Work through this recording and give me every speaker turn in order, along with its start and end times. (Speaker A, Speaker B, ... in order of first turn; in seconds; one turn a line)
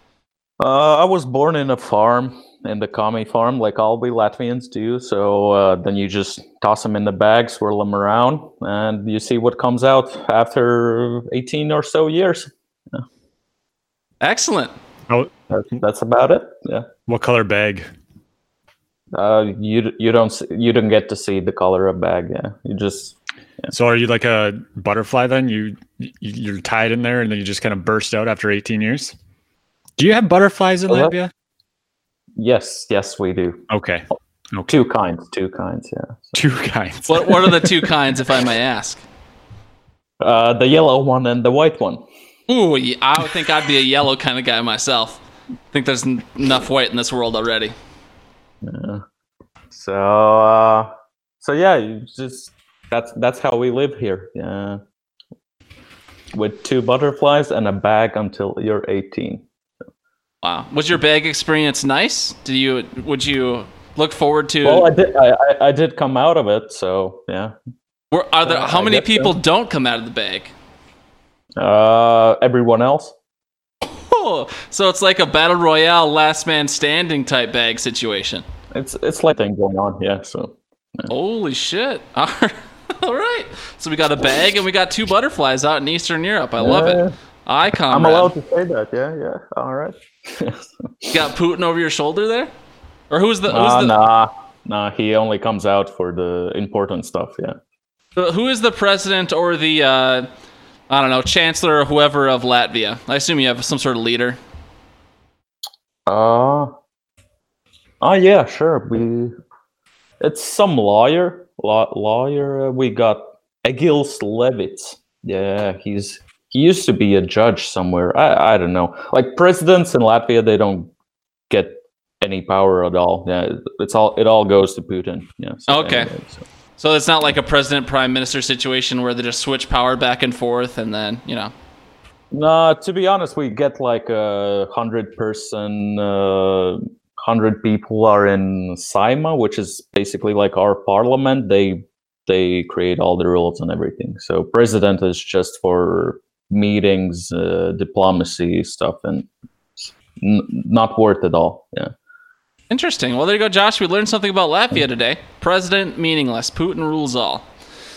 Speaker A: 0.6-13.0
Speaker B: 14.2-14.7
Speaker A: 15.5-16.9
Speaker C: 17.1-17.9
Speaker A: 19.1-23.1
Speaker C: 23.7-29.1
Speaker C: 30.0-31.3
Speaker A: 30.9-31.1
Speaker A: 32.4-33.6
Speaker C: 33.7-34.7
Speaker A: 34.7-36.4
Speaker C: 36.4-37.5
Speaker B: 37.1-39.0
Speaker A: 40.2-42.0
Speaker B: 42.5-45.2
Speaker B: 45.7-47.7
Speaker A: 48.6-49.0
Speaker A: 49.7-54.8
Speaker A: 56.3-59.4
Speaker B: 60.4-64.9
Speaker A: 64.6-67.5
Speaker B: 68.1-70.5
Speaker A: 68.5-69.3
Speaker A: 71.6-73.1
Speaker B: 73.9-78.4
Speaker A: 78.7-81.1
Speaker B: 81.1-88.3
Speaker A: 86.6-87.1
Speaker A: 87.9-91.1
Speaker B: 91.1-92.5
Speaker B: 93.1-94.0
Speaker A: 93.5-97.6
Speaker B: 98.1-100.3
Speaker B: 100.9-104.4
Speaker A: 106.1-106.7
Speaker A: 108.0-109.3
Speaker A: 110.2-120.9
Speaker A: 121.5-126.4
Speaker B: 125.7-126.1
Speaker B: 126.8-131.5
Speaker A: 132.3-151.9
Speaker B: 152.7-157.4